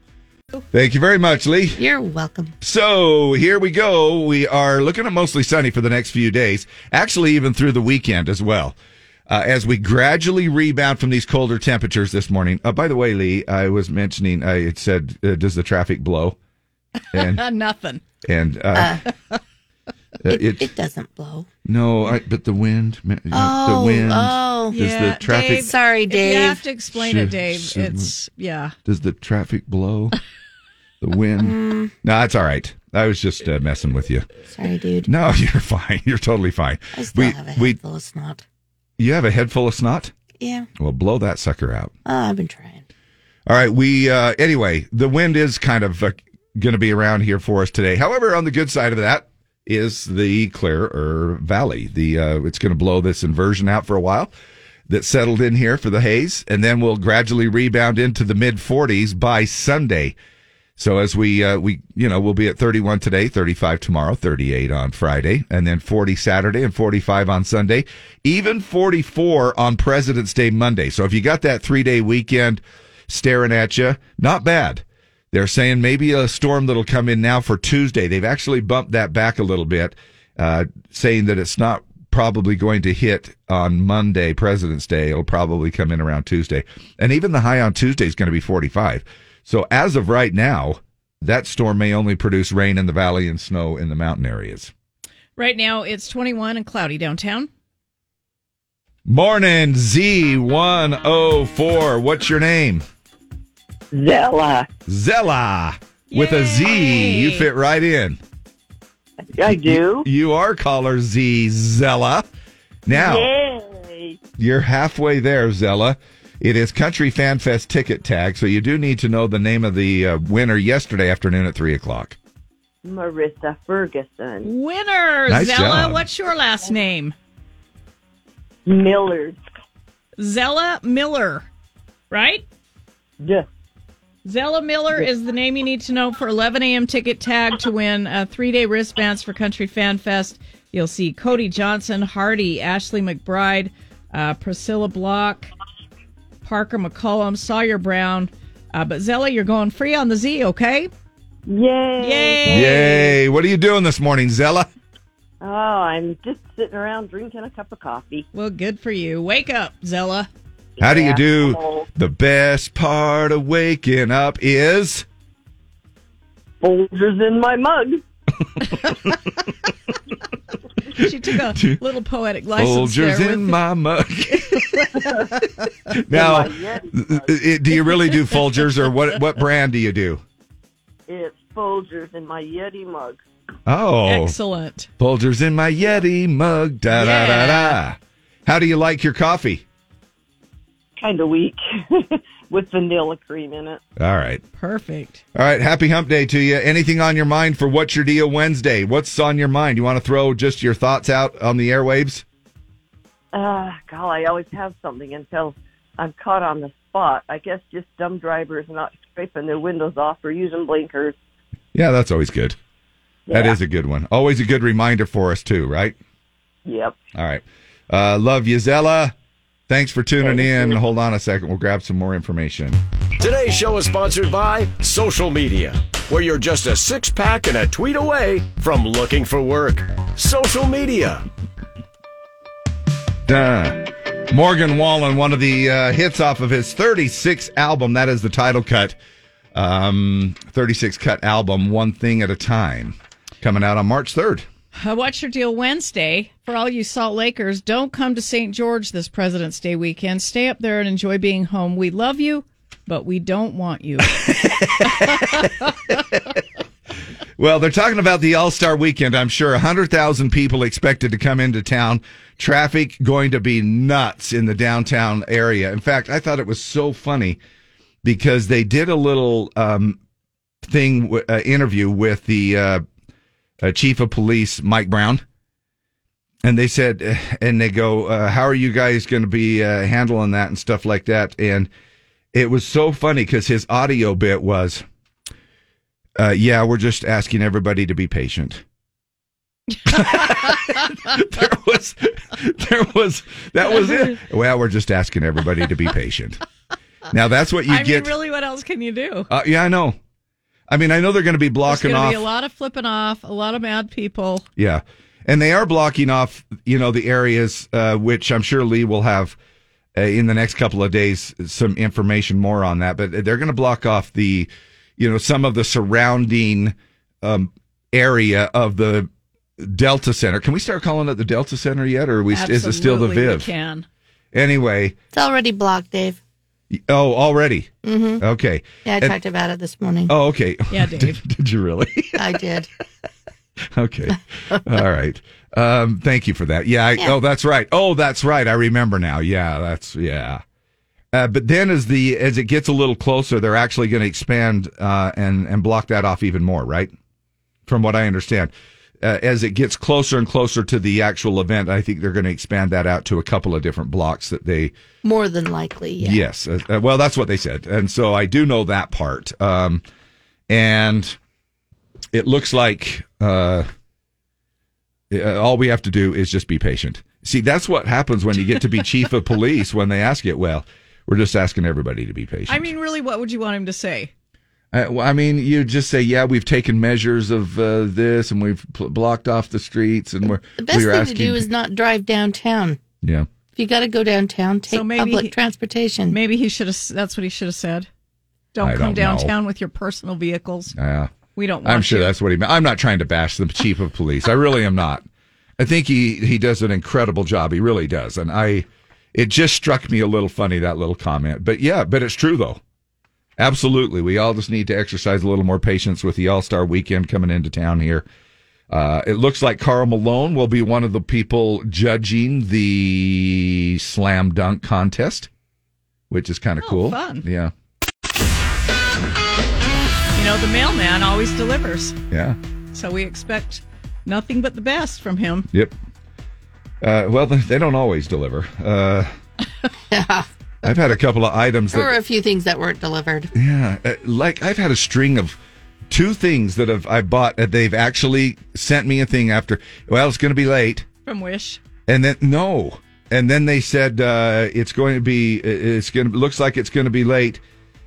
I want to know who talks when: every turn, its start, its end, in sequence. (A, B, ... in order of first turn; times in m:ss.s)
0:00.7-0:01.8 A
0:01.8-0:02.5 B
0:02.6-0:08.8 A
0:09.3-0:16.4 A
0:17.1-0:18.0 C
0:17.1-0:17.4 A
0:18.2-0:19.0 A
0:18.8-0:19.0 B
0:20.2-0:20.7 A
0:20.3-0:21.5 B
0:21.6-0:25.7 A
0:23.3-0:24.8 B
0:24.7-0:28.7 C
0:25.5-0:26.6 B
0:26.9-0:28.1 A
0:28.9-0:30.2 A
0:31.0-0:34.3 A
0:31.4-0:31.9 B
0:34.5-0:35.1 B
0:35.0-0:37.8 A
0:36.9-0:38.4 B
0:39.0-0:40.1 A
0:40.4-0:40.7 B
0:40.8-0:41.9 A
0:42.1-0:42.8 B
0:43.5-0:54.3 A
0:54.9-1:00.2 A
1:00.8-1:34.7 A
1:35.4-1:37.5 C
1:39.1-1:42.8 A
1:43.9-1:44.7 D
1:44.9-1:48.2 A
1:46.1-1:47.5 C
1:49.2-1:50.1 D
1:49.4-1:52.3 A
1:52.9-1:53.3 A
1:52.9-1:54.2 D
1:54.4-2:02.2 A
2:02.8-2:04.5 D
2:04.4-2:07.1 C
2:05.3-2:06.0 A
2:08.7-2:09.4 D
2:10.2-2:11.5 C
2:12.1-2:12.4 C
2:14.3-2:25.5 C
2:26.4-2:30.9 C
2:31.5-2:32.9 D
2:32.0-2:33.2 C
2:32.5-2:34.7 A
2:35.4-2:38.3 D
2:38.3-2:40.3 C
2:40.8-2:41.9 D
2:40.8-2:45.0 A
2:46.6-2:48.0 D
2:51.0-2:53.6 C
2:51.4-2:51.8 A
2:52.6-2:54.9 A
2:56.0-3:00.2 A
2:56.1-2:57.3 D
3:01.1-3:03.2 D
3:03.7-3:04.4 A
3:04.0-3:04.9 C
3:05.0-3:09.6 A
3:06.9-3:07.8 C
3:11.0-3:13.8 D
3:14.0-3:14.4 A
3:14.6-3:15.2 C
3:15.4-3:22.2 A
3:23.3-3:31.2 D
3:31.7-3:32.6 A
3:33.3-3:33.6 D
3:33.3-3:36.0 A
3:36.7-3:37.0 D
3:37.2-3:39.1 A
3:39.7-3:42.8 A
3:40.2-3:40.8 D
3:43.2-3:51.2 E
3:53.3-3:59.0 A
3:59.5-4:04.5 A
4:04.8-4:14.2 C
4:14.2-4:15.5 A
4:17.4-4:27.4 A
4:28.0-4:30.0 A
4:30.6-4:32.8 A
4:33.6-4:35.2 A
4:36.4-4:41.7 A
4:42.3-4:44.8 A
4:46.2-4:48.6 A
4:49.9-4:56.4 A
4:57.1-4:58.2 A
4:57.7-4:59.3 C
4:59.3-5:00.0 A
5:00.7-5:02.3 A
5:01.7-5:04.5 C
5:04.6-5:09.4 A
5:10.0-5:23.5 A
5:22.3-5:23.9 C
5:24.3-5:25.0 A
5:25.1-5:26.2 B
5:26.7-5:29.2 A
5:27.8-5:28.2 B
5:28.8-5:30.1 B
5:30.1-5:32.2 A
5:30.7-5:31.2 C
5:32.2-5:32.7 B
5:33.7-5:40.4 A
5:41.1-5:46.9 A
5:47.7-5:54.7 A
5:55.0-5:56.2 B
5:56.0-5:59.8 A
6:00.5-6:01.2 A
6:02.1-6:03.7 A
6:05.1-6:12.7 A
6:12.5-6:14.1 C
6:14.7-6:21.5 A
6:20.6-6:22.8 B
6:23.0-6:23.3 A
6:23.5-6:26.2 B
6:24.7-6:25.3 C
6:26.1-6:27.9 C
6:28.5-6:30.8 C
6:28.6-6:29.3 A
6:30.8-6:31.1 A
6:31.4-6:32.1 C
6:31.6-6:35.0 A
6:35.6-6:42.6 A
6:43.4-6:48.1 A
6:48.7-6:55.3 A
6:56.1-6:57.5 A
6:56.6-6:57.2 C
7:00.2-7:02.0 C
7:02.1-7:02.4 A
7:02.7-7:05.5 C
7:06.8-7:09.1 A
7:09.9-7:10.3 B
7:10.6-7:12.0 A
7:11.7-7:13.3 B
7:13.4-7:15.4 A
7:15.9-7:20.9 A
7:21.0-7:21.6 C
7:21.9-7:27.4 A